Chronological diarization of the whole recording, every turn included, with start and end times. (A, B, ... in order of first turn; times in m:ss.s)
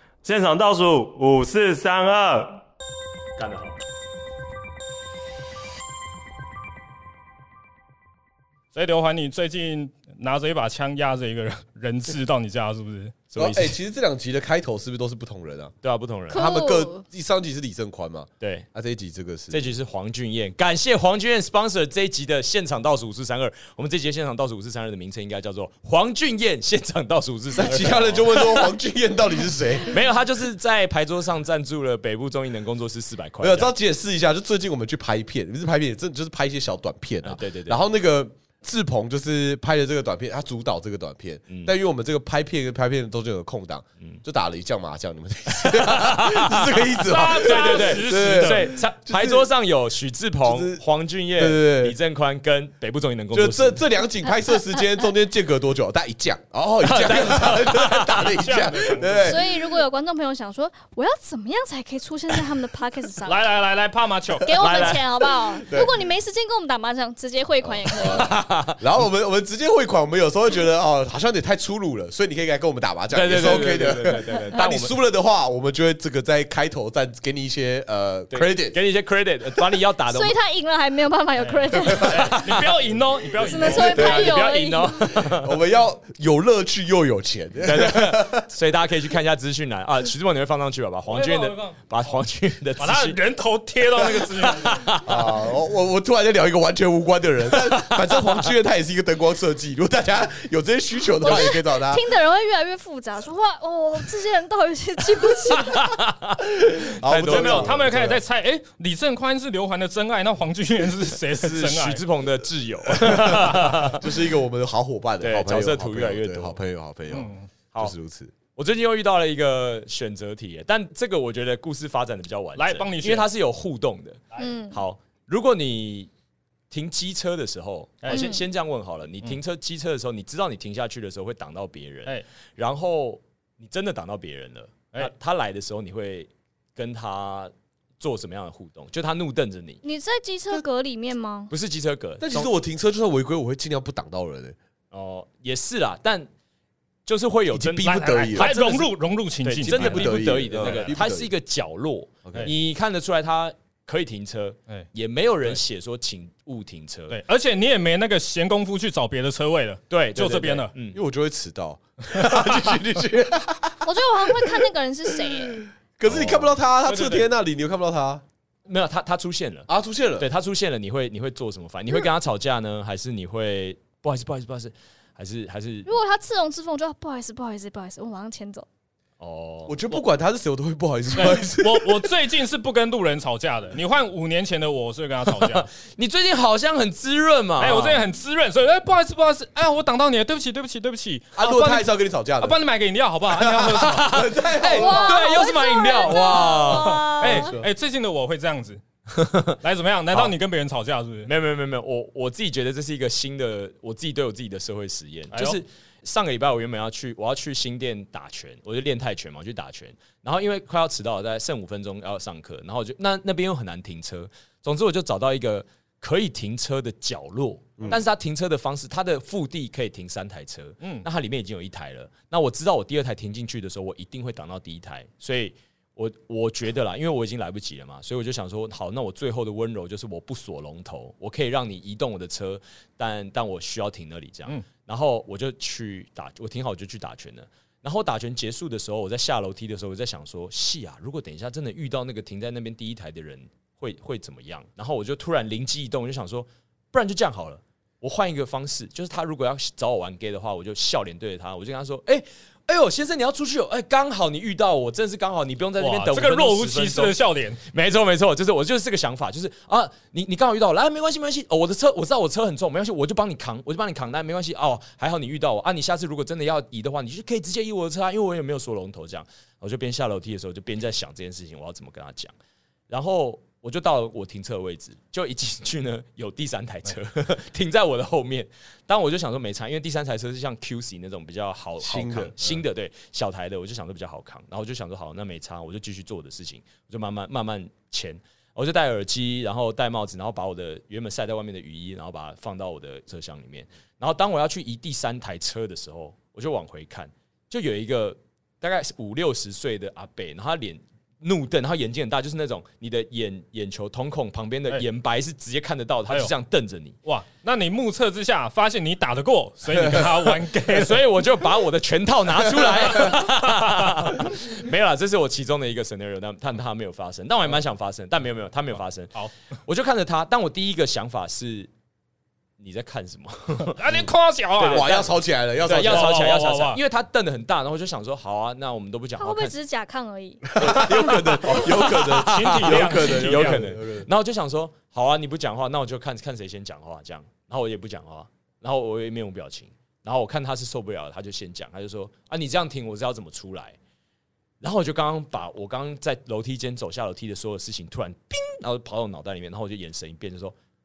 0:00.2-0:02.6 A
0:03.4-0:03.8 B
0:08.7-0:13.2 C
0:13.3-0:13.8 B
0:13.4-0:15.7 D
0:15.8-0:16.4 B
0:16.3-0:17.0 E
0:16.3-0:19.7 D
0:18.4-0:18.7 B
0:19.5-0:28.7 B
0:27.5-0:30.0 D
0:29.9-0:33.7 B
0:33.4-0:49.5 D
0:37.2-0:37.8 B
0:41.5-0:41.7 B
0:45.5-0:53.8 B
0:47.0-0:48.7 C
0:50.4-0:52.0 D
0:53.3-0:59.8 D
0:56.8-0:58.4 B
0:58.3-0:59.4 C
0:59.2-1:03.4 E
1:03.2-1:04.5 C
1:04.4-1:08.4 E
1:04.6-1:05.0 B
1:05.6-1:05.9 D
1:07.6-1:18.8 D
1:08.0-1:08.8 B
1:13.1-1:14.9 B
1:18.3-1:20.4 B
1:20.1-1:22.4 E
1:21.4-1:24.3 C
1:22.0-1:22.7 B
1:23.3-1:25.1 E
1:23.6-1:25.5 B
1:25.2-1:28.5 D
1:27.6-1:33.2 B
1:31.1-1:31.8 C
1:32.8-1:35.0 C
1:33.9-1:34.5 D
1:34.6-1:35.1 B
1:35.0-1:42.0 D
1:37.7-1:38.0 B
1:41.2-1:46.0 E
1:45.7-1:46.4 B
1:46.8-1:48.2 D
1:47.0-1:47.9 B
1:47.2-1:52.0 C
1:51.2-1:54.0 B
1:52.9-1:58.3 D
1:53.3-1:53.7 C
1:55.2-1:56.6 B
1:57.1-1:57.5 C
1:58.5-2:04.2 B
2:02.6-2:03.3 C
2:04.3-2:04.8 E
2:04.7-2:06.1 B
2:06.7-2:19.8 B
2:08.0-2:08.3 C
2:08.1-2:08.4 E
2:19.8-2:21.5 E
2:21.5-2:22.5 B
2:22.2-2:24.6 D
2:24.9-2:26.3 B
2:27.0-2:28.9 B
2:27.5-2:28.6 D
2:27.8-2:31.0 C
2:29.4-2:37.2 B
2:29.7-2:31.3 D
2:32.2-2:32.5 D
2:37.1-2:40.7 C
2:39.9-2:41.0 B
2:40.9-2:48.2 D
2:42.1-2:42.6 C
2:43.8-2:45.6 E
2:46.0-2:46.5 B
2:46.8-2:47.2 C
2:48.6-2:55.9 B
2:49.7-2:50.3 D
2:55.8-2:58.6 E
2:59.2-3:00.0 B
2:59.7-3:02.1 D
3:01.2-3:05.7 C
3:05.3-3:08.0 B
3:07.6-3:11.9 C
3:11.4-3:12.6 D
3:12.4-3:15.0 C
3:13.3-3:15.3 D
3:13.6-3:17.1 B
3:14.7-3:17.5 E
3:16.5-3:18.8 C
3:17.2-3:17.7 D
3:19.1-3:19.6 B
3:19.6-3:21.3 C
3:21.2-4:32.3 B
3:25.3-3:25.6 C
3:40.8-3:41.0 C
4:15.8-4:17.6 C
4:32.9-5:07.0 B
4:41.8-4:42.6 D
5:07.0-5:11.0 C
5:09.9-5:10.2 D
5:10.7-5:19.1 B
5:12.8-5:13.2 D
5:13.0-5:13.7 C
5:19.6-5:21.7 B
5:22.6-5:23.8 B
5:23.6-5:25.0 C
5:24.6-5:25.0 B
5:24.6-5:26.2 D
5:25.6-5:29.5 B
5:25.7-5:26.8 C
5:29.2-5:30.9 E
5:30.5-5:34.1 D
5:30.6-5:43.8 B
5:32.2-5:33.6 C
5:44.6-5:50.5 B